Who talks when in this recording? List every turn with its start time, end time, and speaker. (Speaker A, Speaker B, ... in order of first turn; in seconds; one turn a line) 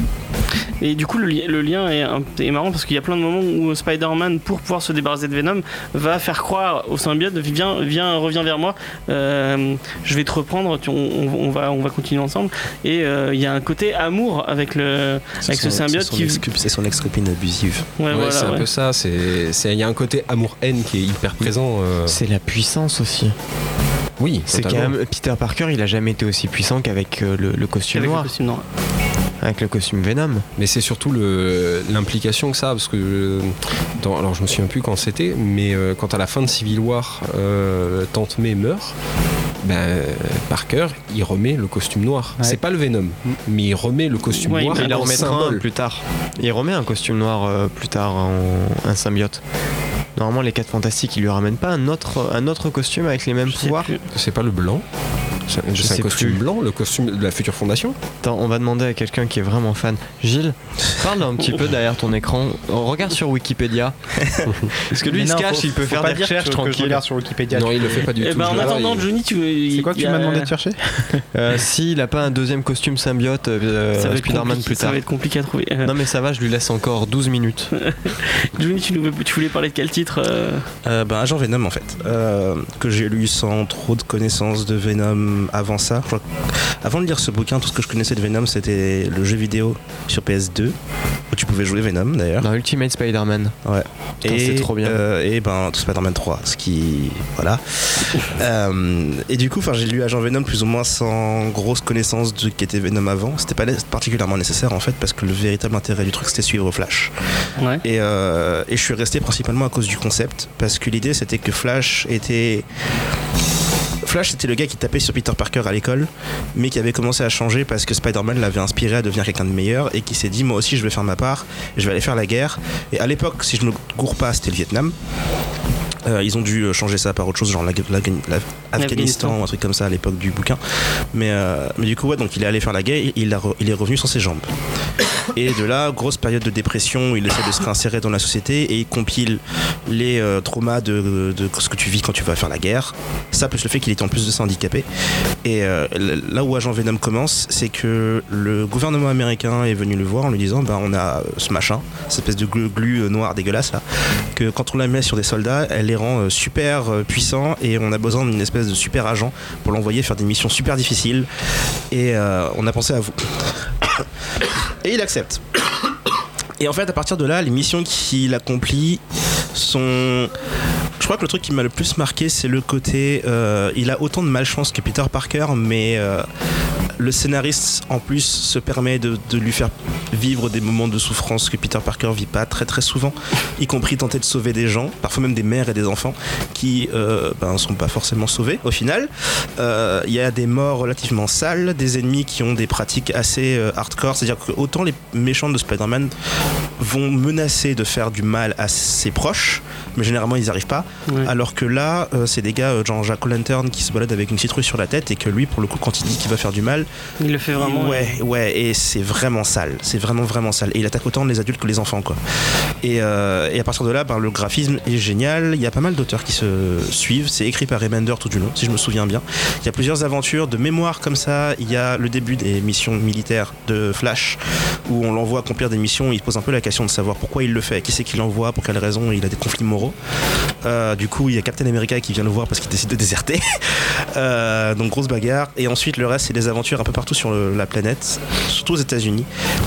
Speaker A: 0.8-16.4
Speaker B: 15.4-17.9
Speaker A: 18.0-18.6
Speaker C: 18.1-22.2
Speaker D: 22.1-23.4
Speaker C: 24.2-24.9
Speaker D: 24.5-28.3
Speaker A: 27.9-28.6
Speaker D: 29.4-30.4
Speaker C: 30.6-39.0
Speaker C: 39.6-45.6
Speaker D: 44.5-49.4
Speaker A: 44.5-45.3
Speaker D: 50.2-53.9
Speaker A: 53.5-54.0
Speaker C: 54.1-54.8
Speaker C: 55.5-58.0
Speaker D: 55.8-56.4
Speaker D: 58.2-67.0
Speaker E: 65.1-67.9
Speaker C: 67.5-69.1
Speaker A: 68.2-70.5
Speaker E: 69.7-71.2
Speaker D: 71.3-75.0
Speaker A: 74.0-75.9
Speaker D: 75.8-77.7
Speaker A: 77.8-80.7
Speaker B: 80.9-86.3
Speaker B: 86.8-90.8
Speaker B: 91.3-92.5
Speaker D: 92.4-93.5
Speaker B: 93.7-107.1
Speaker D: 94.2-95.0
Speaker B: 107.8-112.7
Speaker B: 114.0-124.9
Speaker B: 126.1-130.6
Speaker A: 128.8-129.4
Speaker B: 131.1-134.5
Speaker B: 135.3-144.8
Speaker B: 145.4-153.8
Speaker B: 154.3-161.3
Speaker B: 161.9-163.3
Speaker B: 164.8-165.4
Speaker B: 166.6-169.0
Speaker B: 169.6-170.3
Speaker B: 171.0-176.3
Speaker B: 177.0-196.1
Speaker B: 196.8-206.9
Speaker A: 207.2-208.1
Speaker B: 207.6-212.2
Speaker B: 212.8-230.0
Speaker B: 230.6-239.3